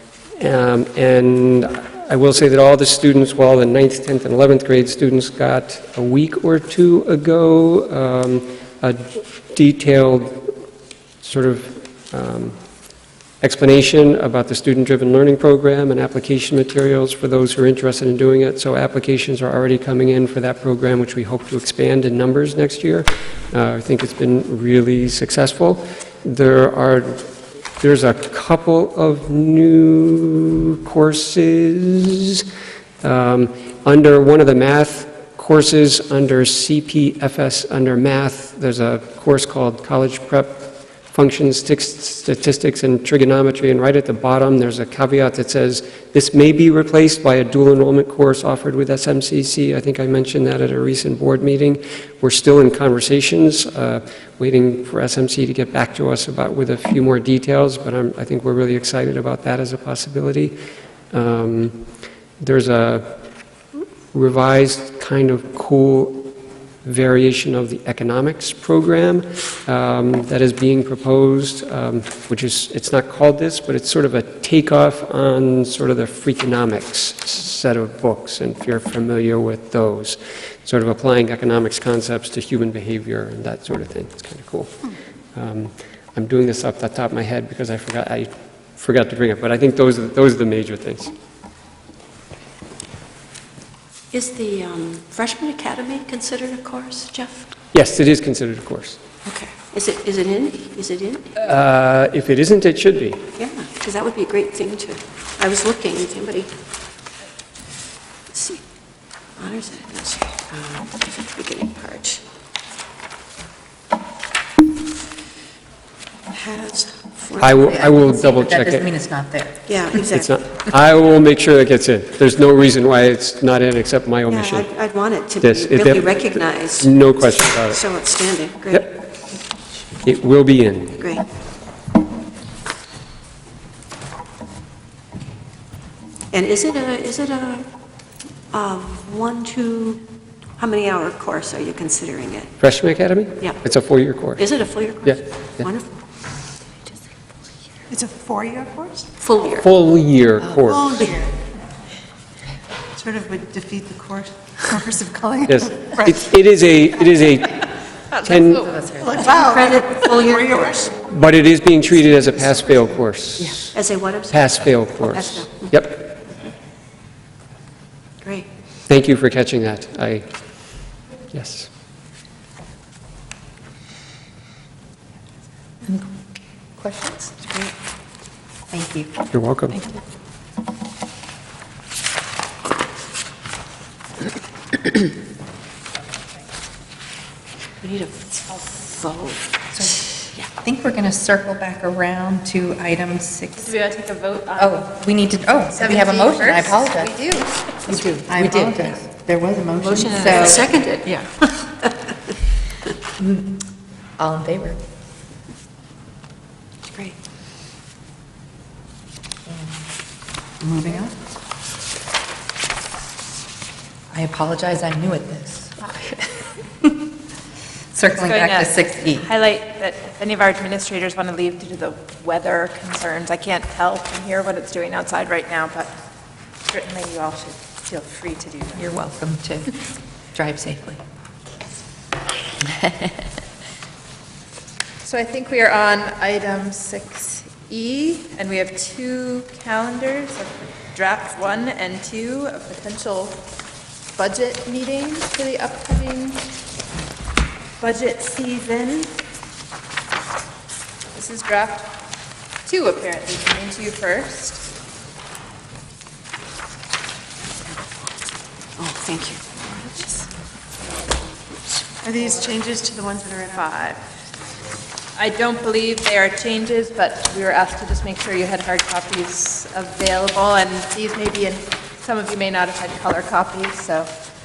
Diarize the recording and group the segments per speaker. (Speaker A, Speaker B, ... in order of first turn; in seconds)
Speaker A: 0.4-10.5, 11.2-12.6, 13.4-27.3, 27.8-32.4, 33.0-60.5, 61.1-61.8, 62.4-63.1, 64.1-66.3, 66.8-84.7, 85.3-91.1, 97.7-99.0, 101.4-103.2, 117.4-118.9, 120.1-124.7, 125.4-127.8, 130.0-131.0, 142.6-144.4, 149.5-151.1, 155.4-158.8, 161.1-163.7, 164.3-166.1, 168.9-170.3, 171.3-171.7, 179.3-179.8
Speaker B: 94.1-97.5, 99.2-101.3, 103.4-106.5, 108.3-108.6, 109.4-112.2, 116.3-117.8, 119.7-120.3, 124.3-128.8, 136.3-137.7, 138.5-140.0, 140.6-142.5, 144.4-146.0, 149.2-149.6, 159.2-160.7, 163.7-165.7, 177.4-177.7, 187.8-189.4, 198.6-198.8, 199.9-201.8, 258.8-260.1, 261.5-261.9
Speaker C: 117.5-119.8, 158.5-159.3, 176.8-177.3, 178.7-179.1, 189.7-193.7, 194.6-197.2, 197.8-200.7, 203.2-203.6, 204.2-204.8, 210.6-211.1, 214.1-216.1, 217.9-219.3, 228.8-229.8, 230.3-231.0
Speaker D: 147.9-149.1, 150.7-151.3, 152.9-156.3, 159.0-160.9, 262.0-263.5
Speaker E: 158.4-158.8, 193.6-194.8, 195.7-198.1, 199.8-200.6, 218.1-225.9, 226.7-228.9, 235.0-243.4, 244.2-246.4, 247.8-249.2, 251.1-251.9, 252.6-254.6, 263.4-264.0, 265.1-274.1